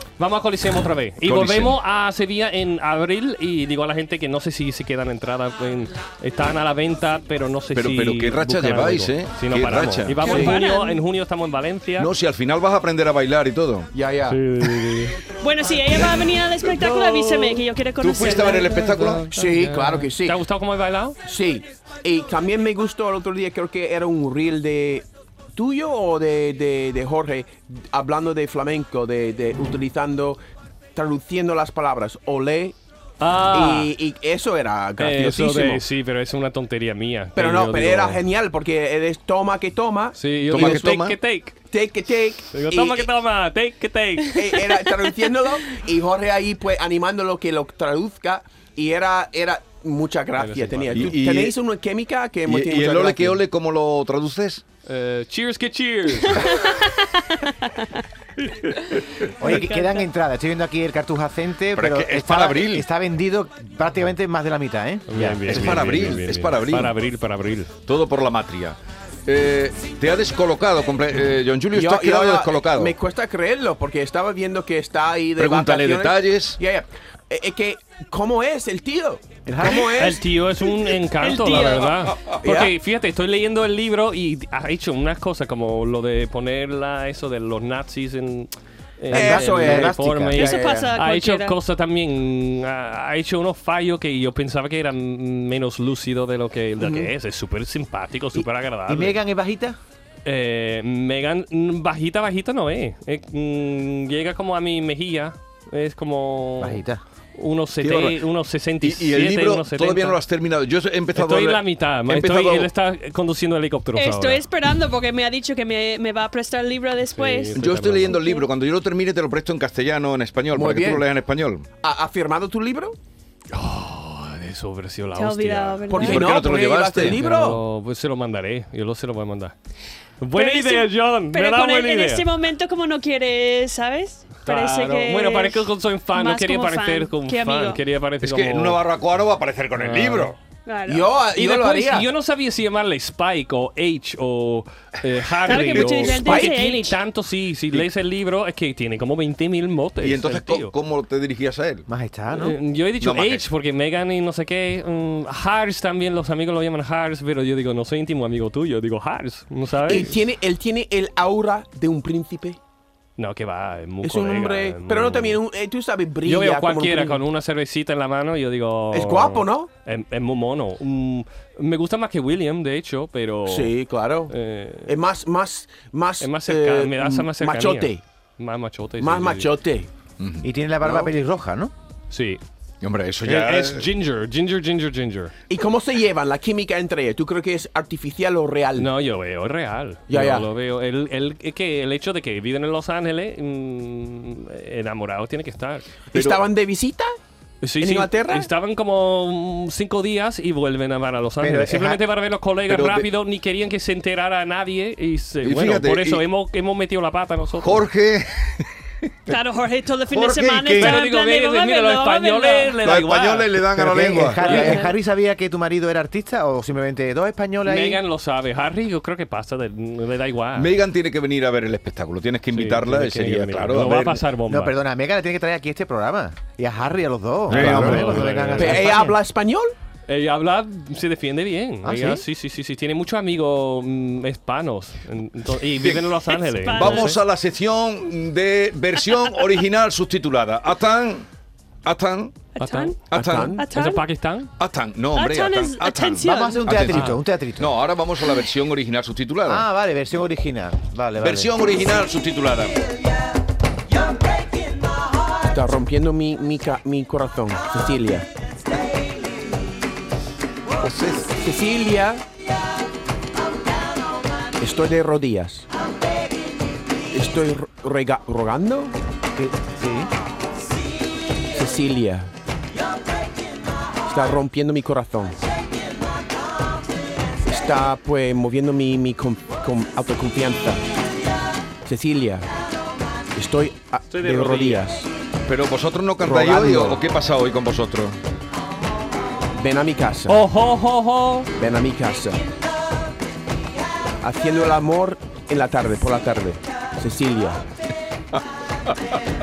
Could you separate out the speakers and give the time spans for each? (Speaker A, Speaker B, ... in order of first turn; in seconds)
Speaker A: 0.2-12.1, 14.3-15.2, 16.7-17.6, 18.2-21.2, 33.2-33.9, 35.0-38.2, 40.1-41.6, 42.5-44.4, 50.4-51.2, 54.9-56.5, 65.1-67.7, 79.6-99.2, 100.2-106.8, 107.3-110.2, 111.1-114.5, 117.1-118.2, 123.5-126.2, 127.0-129.6, 130.2-132.3, 134.4-138.8, 139.8-140.4, 141.3-150.7, 152.3-160.1, 163.2-165.4, 166.2-173.7, 174.3-174.9, 176.2-179.5, 182.1-182.4, 183.2-185.3, 188.8-195.9, 197.6-207.8, 210.8-213.7, 214.4-214.9, 217.7-220.7, 222.5-224.8, 227.5-228.9, 230.1-237.1, 242.6-244.5, 246.9-247.2, 284.1-284.8, 290.3-291.5
Speaker B: 1.2-1.8, 7.7-10.4, 12.0-13.9, 18.0-19.3, 40.5-41.2, 50.9-51.6, 52.5-54.6, 61.8-62.9, 65.5-67.0, 67.9-73.0, 75.4-76.6, 107.8-108.2, 108.8-112.7, 117.5-121.7, 126.0-127.2, 138.2-140.3, 150.0-151.9, 153.0-153.4, 180.2-180.5, 182.8-183.8, 196.1-196.4, 202.7-203.1, 205.4-206.2, 207.6-208.7, 210.1-211.0, 212.8-214.8, 220.6-224.2, 227.5-228.3, 235.8-236.1, 236.7-241.3, 241.8-242.4, 243.1-243.5, 244.6-249.7, 251.2-252.8, 260.8-261.3, 285.5-288.2
Speaker C: 10.2-11.0, 15.4-18.7, 56.4-57.9, 81.2-82.0, 90.4-91.5, 114.0-118.5, 125.2-126.4, 130.3-137.8, 140.7-141.1, 145.5-147.0, 209.3-212.8, 236.6-237.2, 242.6-243.0, 243.6-244.1, 245.1-246.7
Speaker D: 10.3-10.6, 13.9-14.4, 19.3-20.4, 21.2-30.4, 31.0-32.8, 33.5-35.8, 37.4-41.0, 41.7-43.1, 44.3-53.4, 71.7-80.2, 82.4-82.8, 89.1-90.9, 96.8-97.1, 120.5-121.0, 121.8-123.0, 125.9-127.6, 140.9-142.1, 145.7-146.6, 159.9-162.6, 164.0-167.2, 168.9-169.7, 173.5-174.3, 174.9-178.0, 179.0-179.9, 185.5-188.9, 190.1-190.5, 196.1-197.1, 197.8-198.5, 228.6-229.7, 243.2-243.6, 255.5-258.3, 261.4-262.2, 264.6-265.7, 267.1-268.9, 271.5-272.3, 274.1-275.4, 277.4-280.8, 281.9-282.5, 283.4-285.1, 286.2-287.0, 289.6-290.4, 291.6-292.4, 294.2-297.6
Speaker E: 59.4-66.0, 79.5-79.9, 89.1-90.4, 98.9-99.8, 106.6-107.0, 151.9-152.6, 180.4-181.7, 201.4-202.0, 213.7-218.0, 224.5-229.2, 231.8-232.2, 246.2-247.8, 249.5-251.5, 269.4-270.1